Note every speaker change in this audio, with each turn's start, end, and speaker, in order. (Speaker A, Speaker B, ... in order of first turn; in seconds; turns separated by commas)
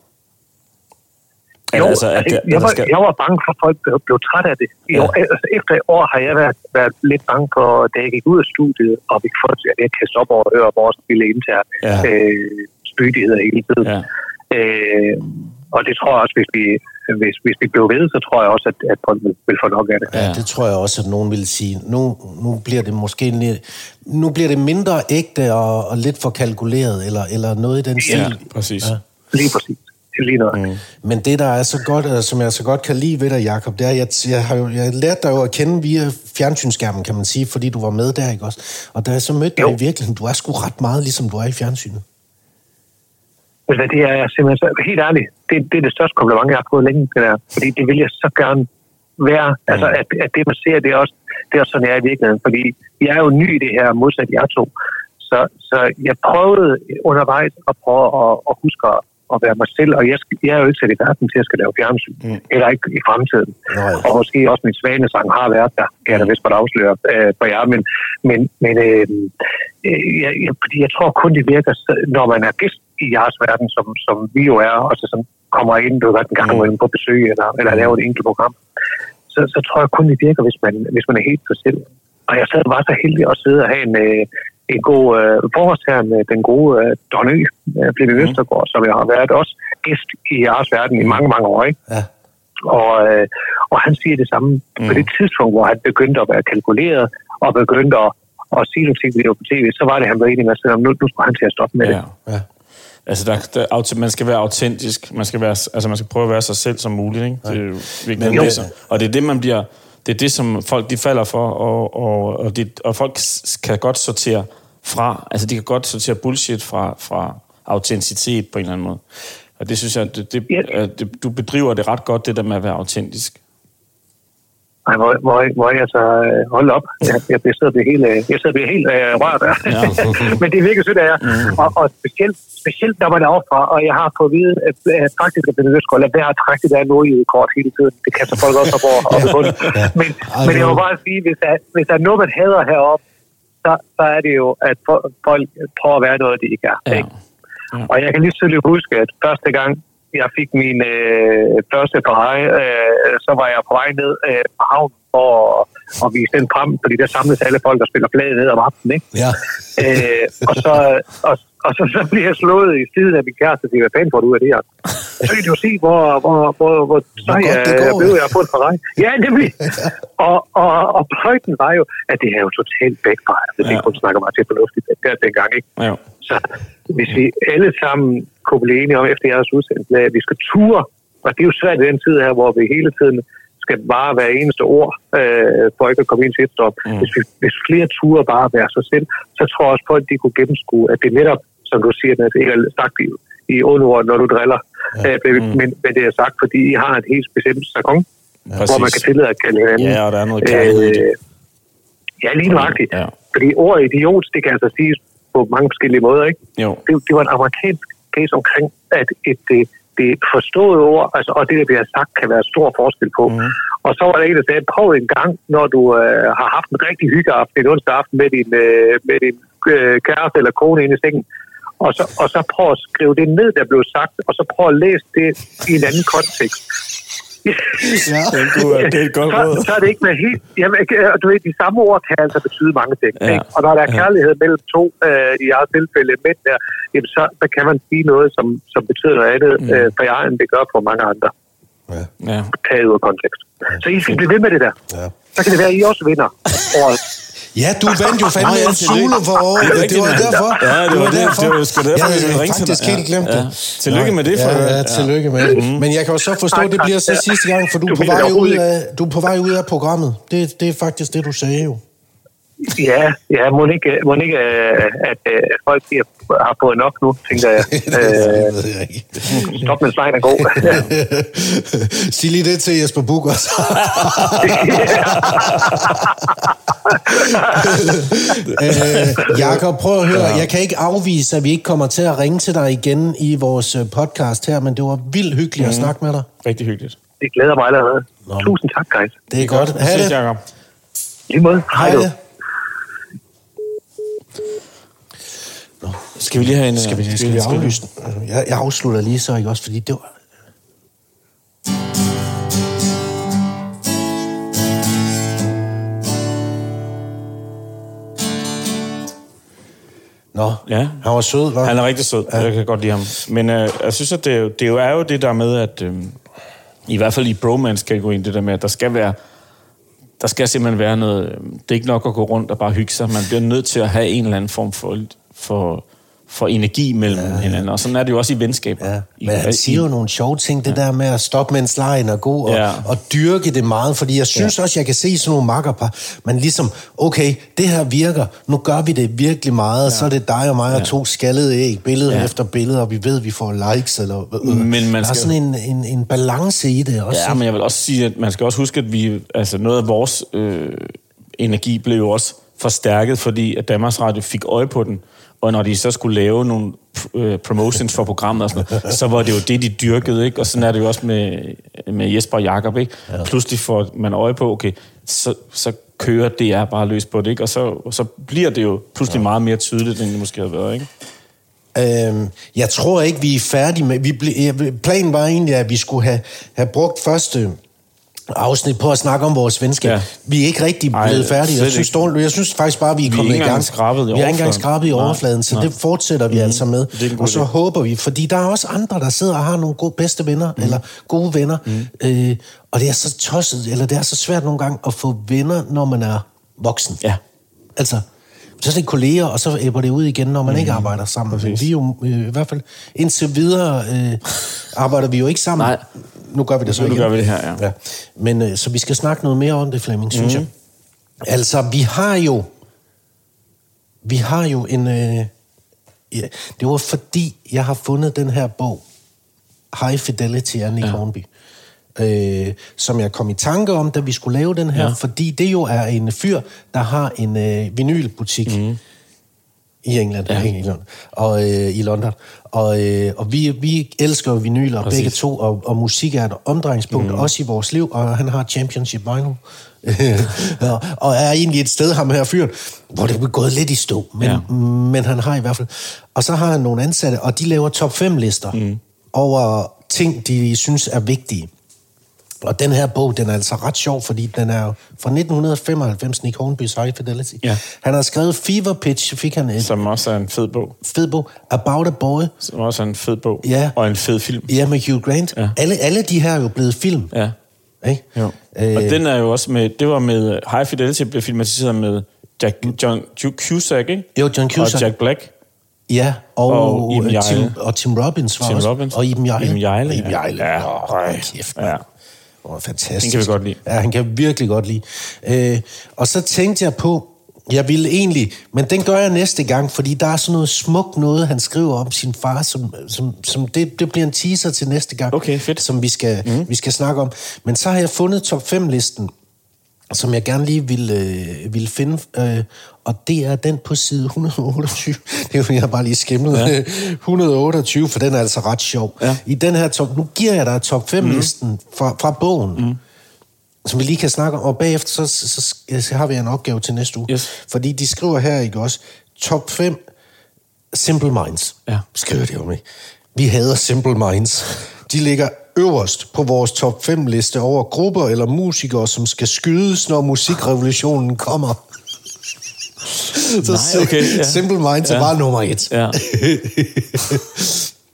Speaker A: 1.7-2.9, Speaker B: 1.7-13.9, Speaker A: 11.8-12.1, Speaker B: 14.5-20.1, Speaker C: 20.1-29.0, Speaker A: 20.1-20.4, Speaker A: 28.1-28.9, Speaker B: 29.3-30.6, Speaker A: 30.5-30.8, Speaker C: 31.0-42.0, Speaker B: 43.7-78.5, Speaker C: 63.7-64.1, Speaker B: 79.3-91.8, Speaker B: 92.6-102.0, Speaker A: 94.8-95.1, Speaker A: 101.8-102.1, Speaker A: 103.1-119.0, Speaker C: 108.2-108.7, Speaker A: 119.6-123.4, Speaker B: 124.9-143.0, Speaker A: 129.7-130.3, Speaker A: 131.2-131.6, Speaker C: 139.1-140.8, Speaker B: 143.6-147.1, Speaker A: 146.9-147.1, Speaker B: 147.9-159.1, Speaker C: 159.1-159.4, Speaker B: 159.8-175.7, Speaker C: 167.2-168.2, Speaker B: 176.2-198.1, Speaker A: 198.5-199.0, Speaker B: 198.7-201.2, Speaker A: 199.8-201.1, Speaker B: 202.2-221.2, Speaker A: 202.5-203.1, Speaker A: 206.6-206.8, Speaker A: 213.3-213.5, Speaker B: 221.8-226.6, Speaker B: 227.4-228.0, Speaker C: 227.8-228.7, Speaker A: 228.3-229.9, Speaker B: 228.6-241.3, Speaker A: 233.2-234.0, Speaker A: 239.6-239.9, Speaker A: 242.2-242.5, Speaker B: 242.6-244.8, Speaker B: 245.3-247.0, Speaker C: 247.6-261.8, Speaker A: 248.2-255.8, Speaker B: 256.5-258.6, Speaker B: 262.6-268.5, Speaker C: 267.7-269.7, Speaker B: 269.3-270.9, Speaker C: 270.5-286.3, Speaker A: 274.0-274.3, Speaker B: 274.4-276.1, Speaker A: 275.1-275.8, Speaker B: 276.9-277.9, Speaker A: 278.5-279.6, Speaker A: 280.1-280.5, Speaker A: 285.6-287.0, Speaker B: 287.2-289.2, Speaker C: 288.3-288.5, Speaker C: 289.3-290.2, Speaker A: 289.4-290.4, Speaker B: 291.3-292.1, Speaker C: 291.7-292.2, Speaker C: 295.8-300.1, Speaker A: 296.2-297.8, Speaker C: 310.3-311.8, Speaker A: 310.7-311.0, Speaker A: 311.6-316.2, Speaker A: 316.9-319.2, Speaker A: 320.2-329.9, Speaker C: 327.1-327.7, Speaker C: 328.8-347.4, Speaker A: 332.4-332.9, Speaker A: 342.1-342.3, Speaker A: 344.4-345.3, Speaker A: 347.1-370.9, Speaker C: 371.8-377.6, Speaker C: 378.3-397.0, Speaker A: 379.8-380.1, Speaker A: 380.9-382.0, Speaker A: 383.0-385.7, Speaker A: 386.3-387.5, Speaker C: 397.8-398.1, Speaker C: 398.6-410.5, Speaker A: 400.5-401.7, Speaker A: 405.6-405.8, Speaker A: 406.7-407.6, Speaker A: 410.1-410.5, Speaker C: 411.2-412.5, Speaker C: 414.0-415.3, Speaker C: 416.1-418.8, Speaker C: 419.7-421.3, Speaker C: 422.0-428.6, Speaker A: 428.5-428.8, Speaker C: 429.8-448.6, Speaker A: 434.8-435.2, Speaker A: 436.9-437.3, Speaker A: 444.2-444.5, Speaker A: 448.5-448.8, Speaker C: 449.1-451.5, Speaker C: 452.4-459.7, Speaker A: 459.6-460.8, Speaker C: 460.8-462.4, Speaker A: 462.4-464.5, Speaker C: 463.4-463.8, Speaker C: 464.5-467.1, Speaker C: 467.8-469.0, Speaker A: 468.1-475.3, Speaker C: 474.1-474.9, Speaker C: 475.9-481.7, Speaker A: 476.5-477.6, Speaker A: 478.4-481.8, Speaker C: 482.4-499.1, Speaker A: 483.0-483.6, Speaker A: 495.1-495.7, Speaker A: 496.2-496.5, Speaker C: 499.9-512.7, Speaker A: 511.0-511.3, Speaker C: 513.6-519.8, Speaker C: 520.7-522.6, Speaker C: 523.1-531.6, Speaker C: 533.0-537.7, Speaker A: 533.4-535.1, Speaker A: 535.7-536.0